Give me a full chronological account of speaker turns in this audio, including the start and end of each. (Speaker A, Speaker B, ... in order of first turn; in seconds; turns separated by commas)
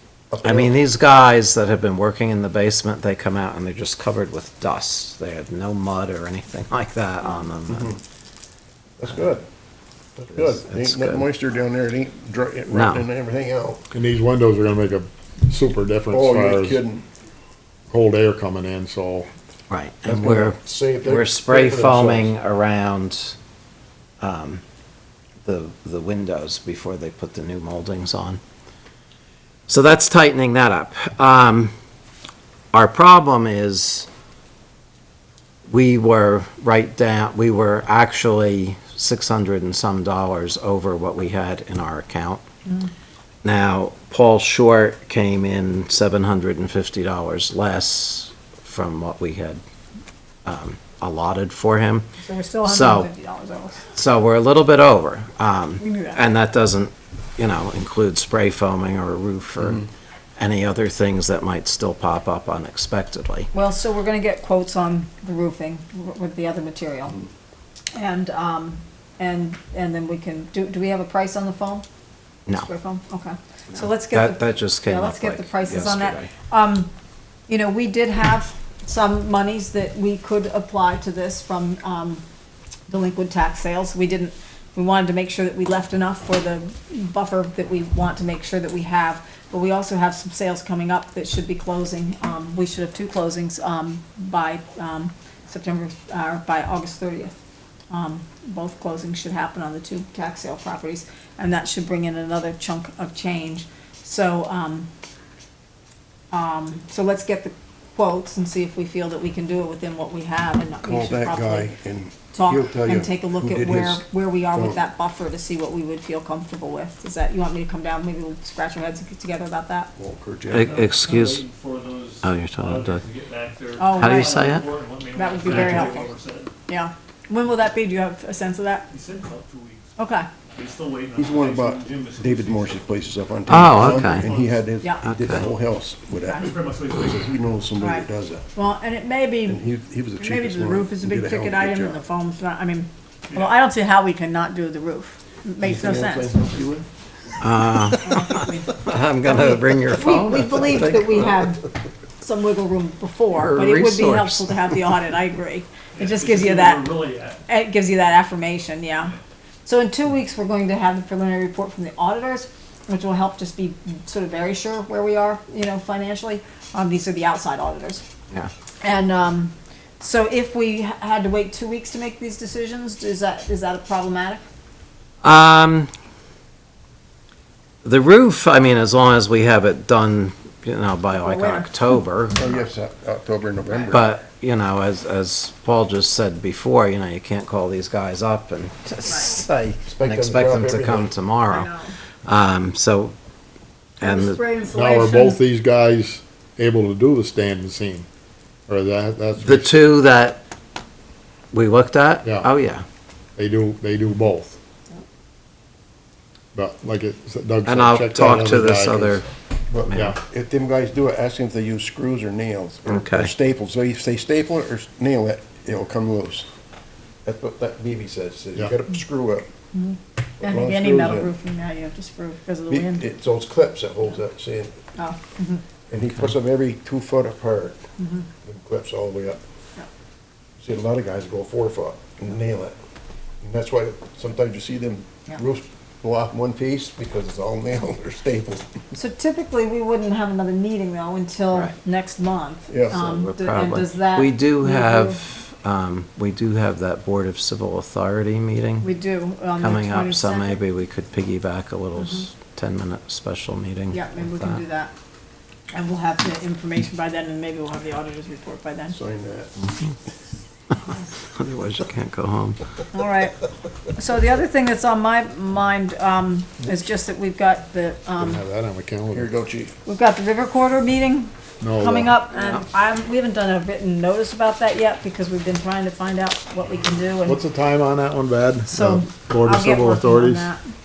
Speaker A: 0.3-0.8, Speaker B: 0.4-7.9, Speaker A: 7.7-8.0, Speaker A: 9.0-9.4, Speaker A: 10.2-13.8, Speaker B: 10.3-11.3, Speaker B: 12.7-13.1, Speaker C: 13.9-16.8, Speaker A: 16.1-17.0, Speaker C: 17.9-19.3, Speaker B: 19.7-23.4, Speaker A: 20.0-22.4, Speaker B: 24.2-24.6, Speaker B: 25.4-28.4, Speaker B: 29.7-31.7, Speaker B: 32.7-34.1, Speaker B: 35.7-42.4, Speaker B: 43.4-49.6, Speaker B: 50.5-52.1, Speaker D: 52.2-53.9, Speaker B: 52.6-53.1, Speaker B: 53.9-59.9, Speaker D: 55.8-56.3, Speaker B: 60.4-63.5, Speaker D: 63.5-67.2, Speaker D: 67.9-71.8, Speaker D: 72.5-76.9, Speaker B: 73.7-76.3, Speaker D: 77.5-82.2, Speaker D: 82.9-97.3, Speaker D: 97.9-104.9, Speaker D: 106.3-111.7, Speaker A: 110.8-114.8, Speaker D: 112.3-119.9, Speaker A: 120.0-120.8, Speaker B: 120.5-121.5, Speaker E: 120.5-126.5, Speaker B: 122.2-123.0, Speaker D: 123.8-124.5, Speaker B: 123.9-124.7, Speaker D: 125.2-126.1, Speaker D: 126.7-128.9, Speaker E: 128.9-130.0, Speaker D: 130.0-130.3, Speaker E: 130.5-134.7, Speaker A: 131.2-138.4, Speaker B: 133.5-134.3, Speaker B: 135.0-135.5, Speaker E: 136.4-137.5, Speaker D: 137.8-139.7, Speaker A: 139.5-142.0, Speaker D: 140.2-146.5, Speaker A: 145.6-146.9, Speaker B: 147.4-148.1, Speaker D: 148.0-151.7, Speaker B: 148.8-151.4, Speaker D: 152.2-156.9, Speaker B: 153.3-154.8, Speaker E: 155.9-157.4, Speaker D: 157.5-168.1, Speaker D: 168.8-174.4, Speaker B: 175.2-175.9, Speaker B: 177.8-182.4, Speaker D: 181.2-182.6, Speaker A: 182.4-184.1, Speaker B: 183.9-191.7, Speaker D: 189.1-189.4, Speaker A: 189.9-191.2, Speaker D: 191.5-191.9, Speaker B: 192.2-193.1, Speaker B: 194.0-194.4, Speaker D: 194.0-195.4, Speaker C: 194.7-198.1, Speaker C: 198.7-199.7, Speaker B: 199.4-200.4, Speaker B: 201.5-202.8, Speaker C: 202.2-202.5, Speaker C: 203.4-204.6, Speaker C: 206.5-210.2, Speaker B: 207.7-209.3, Speaker B: 209.9-210.2, Speaker A: 210.3-216.5, Speaker B: 212.9-213.3, Speaker A: 217.2-219.5, Speaker D: 219.7-223.0, Speaker A: 220.4-221.3, Speaker A: 222.7-224.8, Speaker D: 225.0-225.6, Speaker A: 225.9-227.8, Speaker D: 228.0-228.3, Speaker A: 228.4-229.4, Speaker A: 230.6-232.8, Speaker A: 233.4-238.8, Speaker D: 238.9-245.2, Speaker A: 242.7-243.0, Speaker B: 242.9-248.9, Speaker D: 248.8-250.6, Speaker B: 249.6-254.6, Speaker D: 252.0-252.3, Speaker D: 253.9-254.9, Speaker D: 255.7-259.0, Speaker A: 258.9-259.7, Speaker B: 261.3-262.6, Speaker D: 262.9-263.4, Speaker D: 263.9-268.4, Speaker C: 268.2-269.3, Speaker A: 269.1-269.8, Speaker D: 269.9-277.4, Speaker C: 271.6-272.1, Speaker B: 272.4-272.6, Speaker C: 277.2-280.5, Speaker D: 278.7-280.7